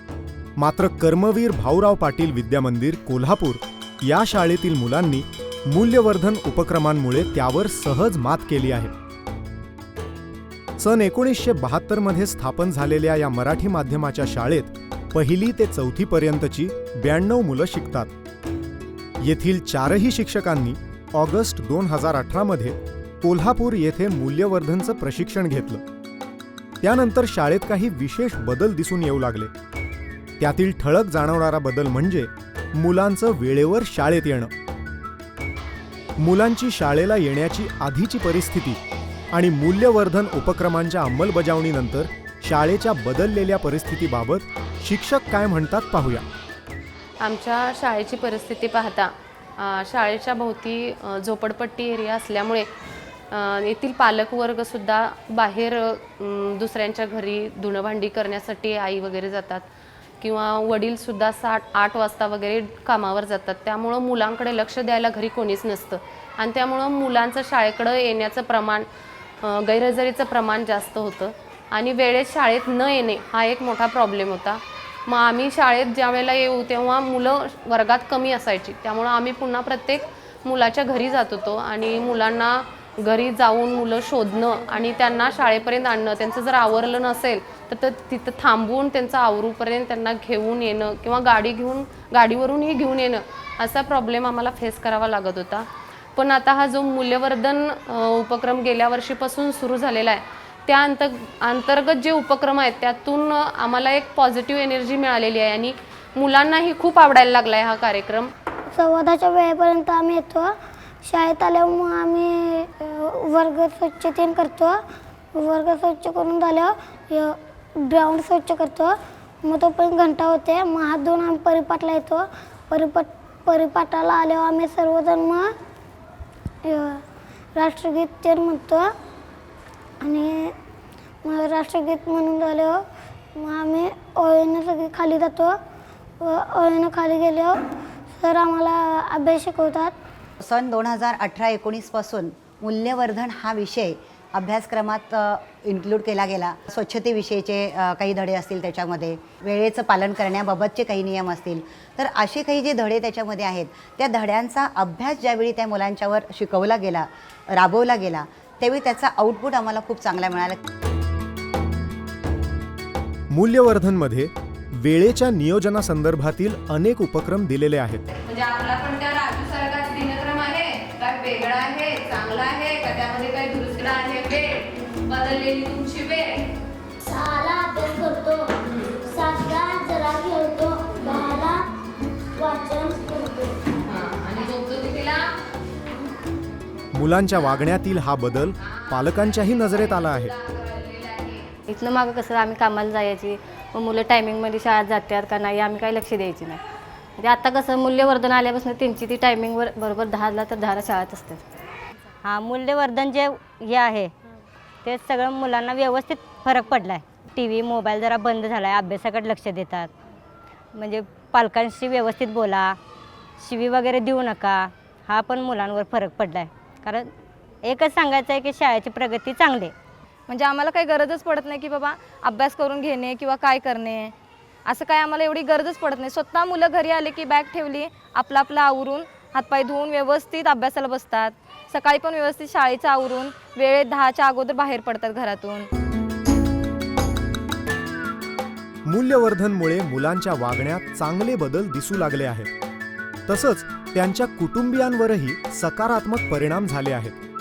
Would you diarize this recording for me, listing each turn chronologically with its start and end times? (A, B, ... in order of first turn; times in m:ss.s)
0:00.6-0:08.9 A
0:10.8-0:18.1 A
0:19.2-0:25.8 A
0:26.8-0:29.5 A
0:30.4-0:34.5 A
0:36.2-0:38.8 A
0:39.3-0:46.2 A
0:47.2-0:52.7 B
0:53.3-0:59.6 B
1:00.2-1:08.9 B
1:09.4-1:48.3 B
1:48.7-1:50.5 C
1:51.0-1:54.8 C
1:55.3-2:05.5 C
2:06.6-2:07.0 C
2:07.5-2:08.9 C
2:10.0-2:10.5 C
2:11.2-2:12.8 C
2:13.4-2:15.6 C
2:16.2-2:17.6 C
2:18.1-2:19.9 C
2:20.4-2:40.6 D
2:43.3-2:48.0 A
2:48.4-2:49.0 E
2:49.7-2:50.1 E
2:50.7-2:51.6 E
2:52.7-2:53.4 E
2:53.9-2:54.3 B
2:57.1-2:58.5 C
2:59.0-3:01.6 C
3:02.4-3:03.5 C
3:03.9-3:05.1 B
3:06.9-3:10.3 A
3:11.7-3:16.6 F
3:17.2-3:21.4 F
3:22.2-3:24.1 G
3:24.8-3:29.9 G
3:30.7-3:32.8 G
3:33.4-3:37.1 G
3:37.6-3:39.7 G
3:40.3-3:44.1 E
3:44.6-3:55.7 E
3:58.8-4:02.5 A
4:03.3-4:07.2 A